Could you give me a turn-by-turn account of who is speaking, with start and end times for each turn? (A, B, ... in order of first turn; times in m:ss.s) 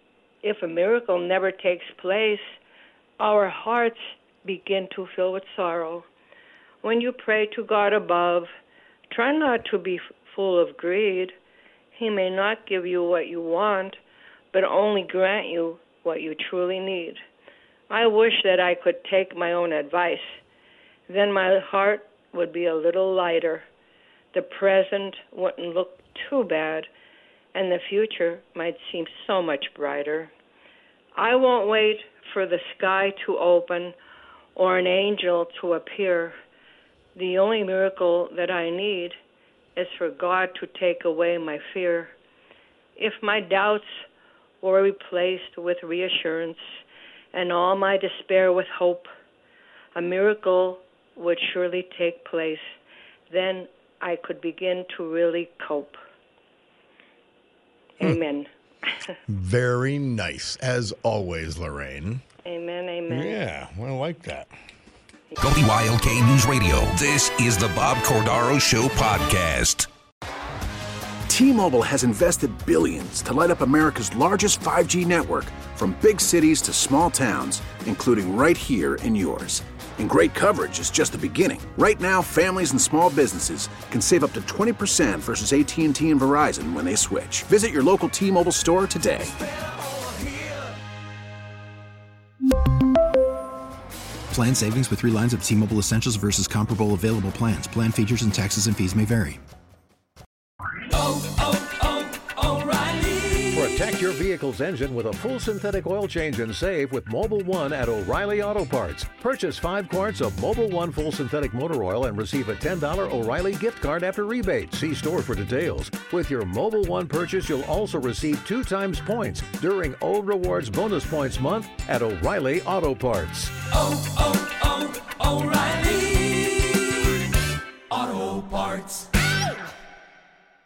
0:00.4-0:02.5 A
0:03.2-0:06.0 A
0:06.8-0:08.5 A
0:09.1-0:11.3 A
0:11.9-0:14.0 A
0:14.5-0:17.2 A
0:17.9-0:20.4 A
0:21.1-0:23.6 A
0:24.3-0:26.9 A
0:27.5-0:30.3 A
0:31.2-0:34.0 A
0:34.6-0:36.4 A
0:37.1-0:39.2 A
0:39.8-0:42.1 A
0:43.0-0:44.0 A
0:44.6-0:46.8 A
0:47.3-0:49.1 A
0:49.9-0:52.7 A
0:53.3-0:56.0 A
0:58.0-0:59.1 A
0:59.3-1:02.2 B
1:02.4-1:03.4 A
1:03.1-1:04.5 B
1:05.4-1:09.9 C
1:11.3-1:29.3 D
1:30.2-1:30.5 E
1:34.3-1:39.4 F
1:40.9-1:43.8 E
1:43.5-2:03.5 G
2:03.7-2:07.2 E
2:07.9-2:09.1 E